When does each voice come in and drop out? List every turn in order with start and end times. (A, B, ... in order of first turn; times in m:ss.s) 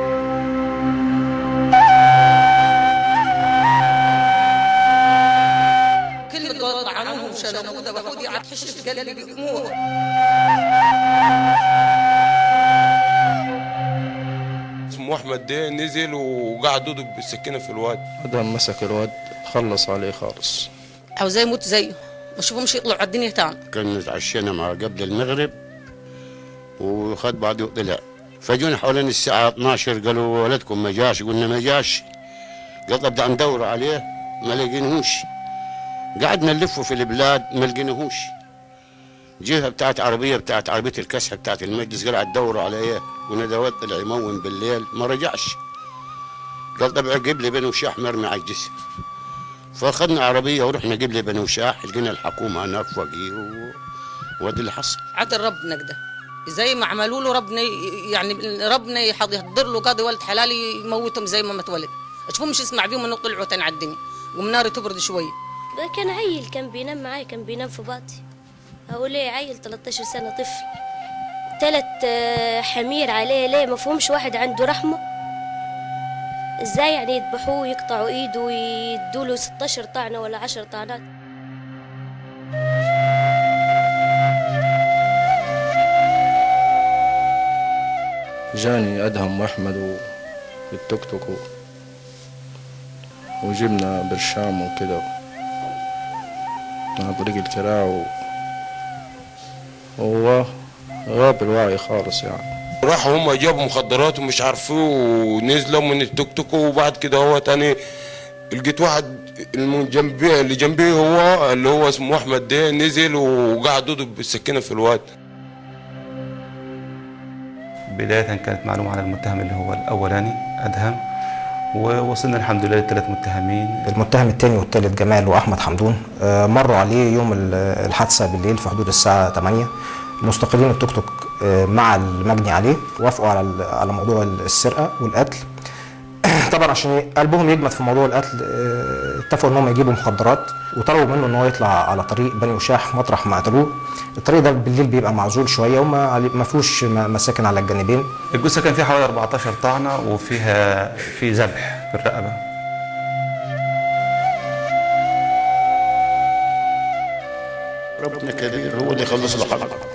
0:06.3-0:09.7 A
0:14.9-0:18.0 B
0:18.2-0:20.7 C
0:21.2-0:23.6 A
0:23.7-0:25.5 D
0:26.8-0:32.0 D
0:32.9-0:35.3 D
0:36.2-0:38.3 D
0:39.4-0:45.6 D
0:46.8-0:48.8 D
0:49.8-0:53.8 D
0:54.4-0:55.0 D
0:55.2-0:56.0 A
0:56.5-1:05.3 A
1:05.8-1:08.2 E
1:08.9-1:10.7 E
1:11.6-1:15.0 E
1:16.7-1:21.0 E
1:28.5-1:30.0 C
1:30.7-1:31.4 C
1:33.4-1:35.0 C
1:37.0-1:38.1 C
1:40.0-1:40.5 C
1:41.0-1:42.5 C
1:42.8-1:47.7 B
1:48.5-1:55.0 B
1:57.9-2:01.0 F
2:01.7-2:03.8 F
2:03.8-2:09.7 G
2:10.2-2:15.4 G
2:16.3-2:28.1 G
2:28.3-2:32.4 F
2:38.0-2:39.8 D